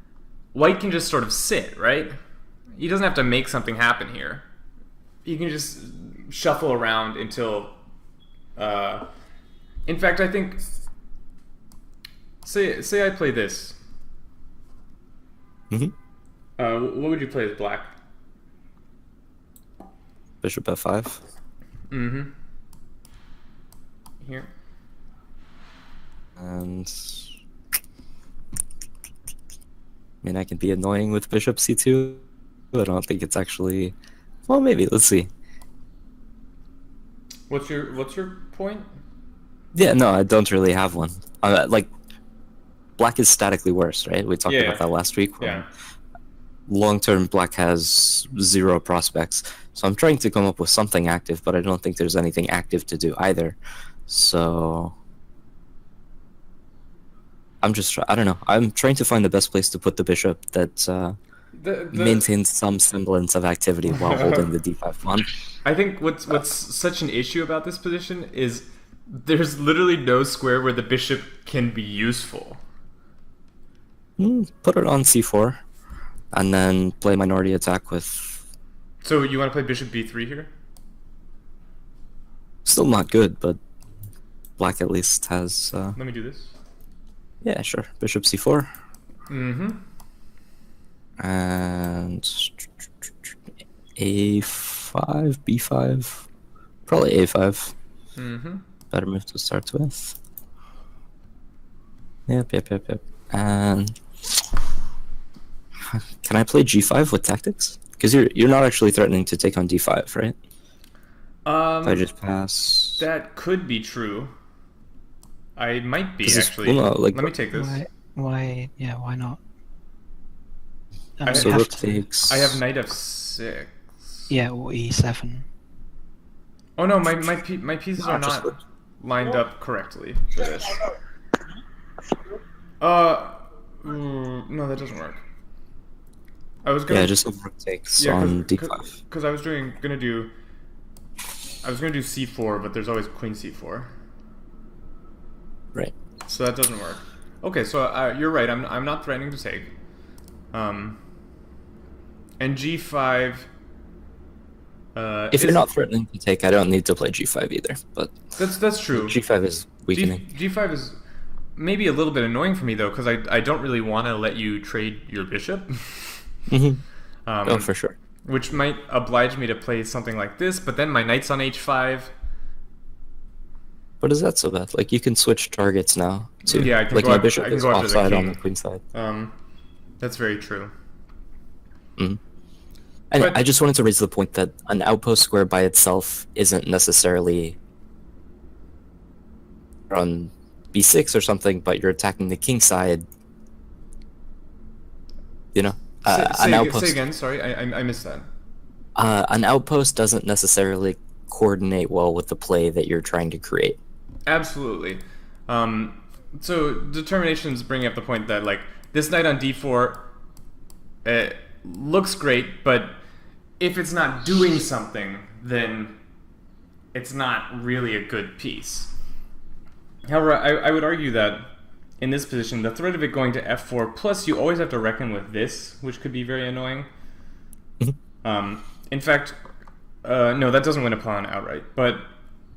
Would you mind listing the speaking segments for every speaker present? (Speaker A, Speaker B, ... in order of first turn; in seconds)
Speaker A: 0.5-2.1, 2.8-4.4, 5.2-7.8, 8.6-9.1, 9.8-10.6, 12.4-13.8, 16.6-17.9, 21.9-22.3, 24.2-24.5, 37.5-38.9, 44.5-44.9, 45.4-45.7, 61.5-62.2, 63.9-64.5, 65.6-72.6, 79.0-80.5, 86.0-86.5, 89.3-89.8, 98.2-98.6, 111.4-112.0, 113.0-114.3, 115.6-117.8, 121.2-121.7, 122.2-124.0, 126.8-130.8, 132.8-135.2, 136.6-137.2, 138.0-140.3, 141.6-143.9, 146.2-149.7, 150.5-151.0, 152.4-153.5, 154.9-155.7, 158.3-159.2, 159.9-161.0, 161.6-166.2, 167.2-167.7, 168.2-172.1, 176.5-178.4, 178.9-179.3, 180.0-180.7, 196.1-198.3, 204.3-210.1, 211.0-213.0, 213.6-215.9, 216.9-218.9, 220.0-226.9, 228.2-229.4, 230.0-232.1
Speaker B: 20.4-21.2, 26.4-27.2, 30.2-33.9, 34.5-35.3, 39.7-41.9, 43.0-45.7, 46.7-54.9, 57.6-61.1, 61.9-65.4, 74.2-75.6, 76.3-78.4, 82.6-83.6, 84.6-86.0, 87.4-88.7, 91.2-92.7, 94.0-96.2, 96.9-97.7, 98.9-100.2, 102.3-104.0, 105.9-110.3, 111.8-113.0, 116.2-117.3, 121.3-122.6, 128.0-128.6, 136.9-138.9, 155.3-158.3, 158.9-160.2, 166.5-166.8, 167.4-167.9, 174.0-178.8, 183.1-187.6, 189.9-193.1, 195.5-197.0, 198.9-203.8
Speaker C: 117.5-119.4, 121.2-121.9, 124.3-125.4